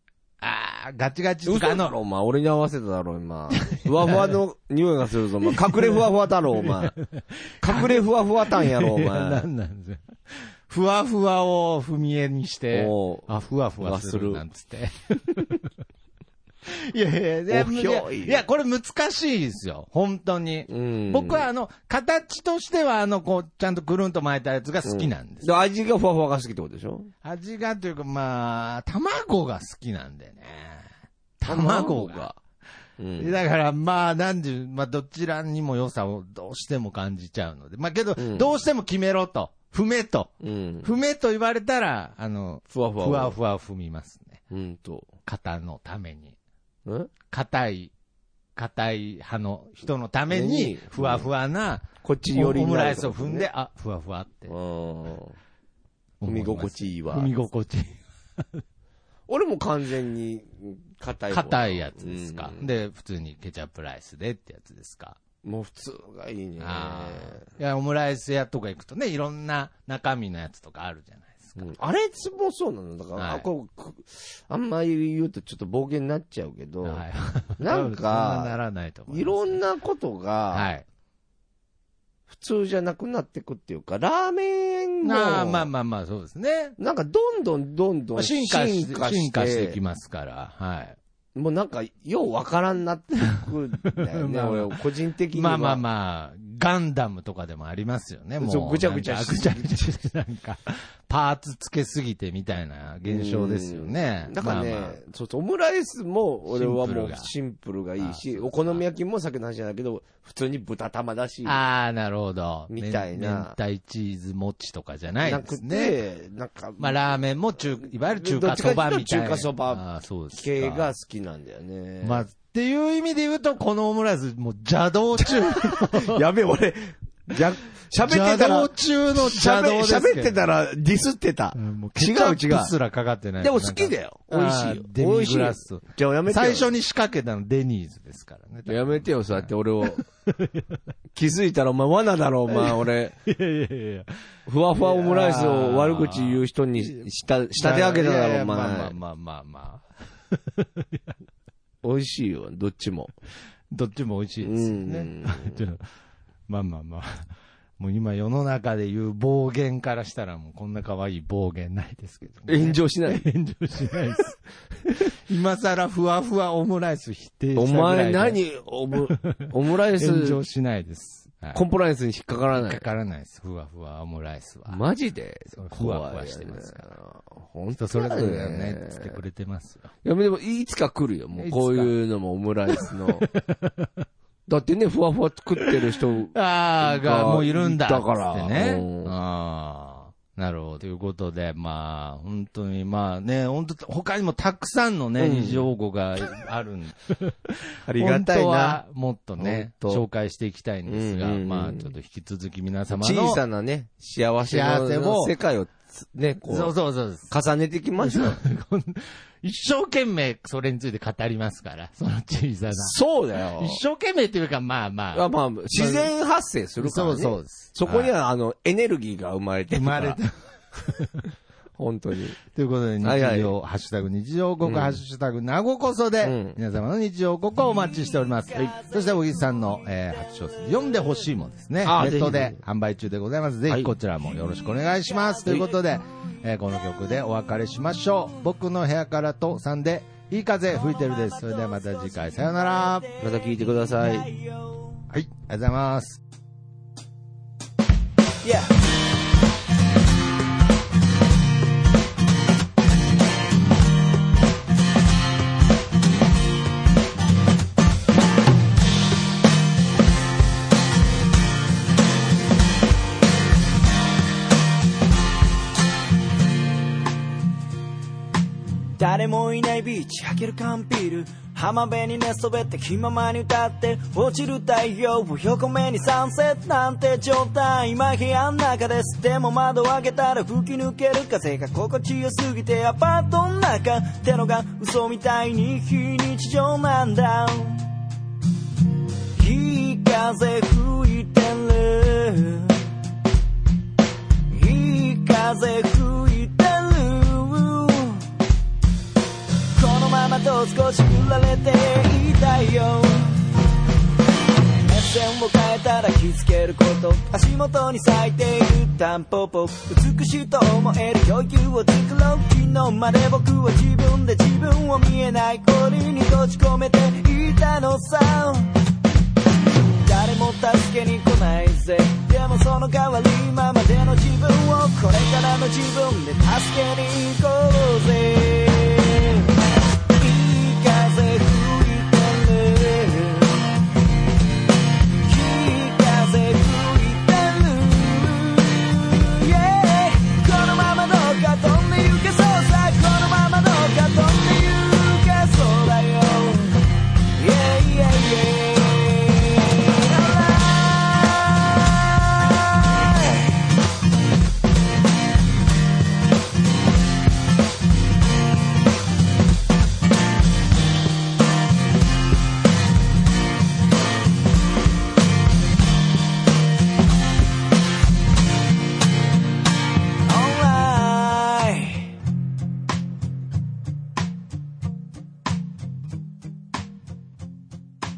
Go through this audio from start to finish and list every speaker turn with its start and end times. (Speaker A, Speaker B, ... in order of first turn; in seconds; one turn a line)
Speaker A: 0.4-1.9
Speaker B: 1.4-7.0
Speaker A: 3.5-4.4
Speaker A: 5.5-15.6
Speaker B: 7.6-9.4
Speaker B: 12.7-13.3
Speaker B: 13.8-14.4
Speaker A: 16.6-25.5
Speaker B: 17.5-18.4
Speaker B: 20.7-21.5
Speaker B: 24.8-27.1
Speaker A: 27.2-32.3
Speaker B: 31.4-32.4
Speaker B: 33.0-33.4
Speaker A: 33.2-44.4
Speaker B: 38.2-38.5
Speaker B: 40.4-40.9
Speaker B: 42.7-43.4
Speaker B: 44.5-45.1
Speaker A: 45.3-46.4
Speaker B: 46.9-47.1
Speaker A: 47.3-47.9
Speaker A: 48.6-54.5
Speaker B: 50.3-51.3
Speaker B: 52.0-53.5
Speaker B: 54.5-55.4
Speaker A: 56.2-58.6
Speaker B: 56.2-57.3
Speaker B: 59.3-62.7
Speaker A: 61.3-65.2
Speaker B: 65.4-67.5
Speaker A: 66.6-71.7
Speaker B: 71.6-77.0
Speaker A: 73.2-73.5
Speaker A: 76.8-79.6
Speaker B: 77.6-78.6
Speaker B: 79.1-80.7
Speaker A: 80.5-80.9
Speaker B: 82.3-85.7
Speaker A: 85.0-86.8
Speaker B: 86.8-89.8
Speaker A: 88.2-91.0
Speaker B: 91.3-95.8
Speaker A: 93.9-94.8
Speaker A: 95.3-105.0
Speaker B: 98.4-99.9
Speaker B: 103.1-111.6
Speaker A: 106.5-107.3
Speaker A: 108.0-108.8
Speaker A: 111.4-116.0
Speaker B: 112.7-113.5
Speaker B: 115.2-122.3
Speaker A: 116.8-120.9
Speaker A: 122.0-126.2
Speaker B: 125.2-132.7
Speaker A: 128.0-130.4
Speaker A: 131.6-140.8
Speaker B: 133.4-136.7
Speaker B: 138.7-140.0
Speaker B: 141.1-143.1
Speaker A: 142.5-144.1
Speaker B: 144.5-148.9
Speaker A: 144.7-147.1
Speaker A: 147.6-151.1
Speaker B: 151.8-153.1
Speaker A: 153.7-155.8
Speaker B: 154.4-155.6
Speaker A: 156.5-168.4
Speaker B: 162.5-163.3
Speaker B: 167.6-170.4
Speaker A: 168.9-171.6
Speaker B: 171.5-172.8
Speaker A: 172.5-174.8
Speaker B: 174.7-179.2
Speaker A: 175.5-176.9
Speaker A: 177.8-179.9
Speaker B: 180.0-183.3
Speaker A: 181.3-181.9
Speaker A: 182.8-184.0
Speaker B: 184.5-189.1
Speaker A: 186.3-203.4
Speaker B: 195.2-195.7
Speaker B: 197.8-198.8
Speaker B: 199.4-200.1
Speaker B: 200.9-201.9
Speaker B: 202.9-206.7
Speaker A: 204.4-205.3
Speaker A: 206.5-207.3
Speaker B: 207.3-208.4
Speaker A: 208.0-213.0
Speaker B: 212.7-213.8
Speaker A: 213.6-216.1
Speaker B: 215.1-220.2
Speaker A: 216.8-218.1
Speaker A: 219.7-221.3
Speaker B: 221.8-222.4
Speaker A: 222.5-243.1
Speaker B: 223.0-223.5
Speaker B: 224.6-225.0
Speaker B: 226.2-226.6
Speaker C: 228.1-231.3
Speaker B: 231.8-232.6
Speaker B: 233.7-233.9
Speaker C: 234.3-237.3
Speaker C: 240.7-245.1
Speaker B: 243.2-244.3
Speaker A: 245.1-246.2
Speaker C: 248.4-248.7
Speaker C: 269.0-287.9
Speaker C: 289.4-292.9
Speaker C: 294.5-298.3
Speaker C: 299.7-303.4
Speaker C: 304.8-318.8
Speaker C: 319.8-329.5
Speaker C: 330.2-333.8
Speaker C: 335.2-353.5
Speaker C: 370.2-372.2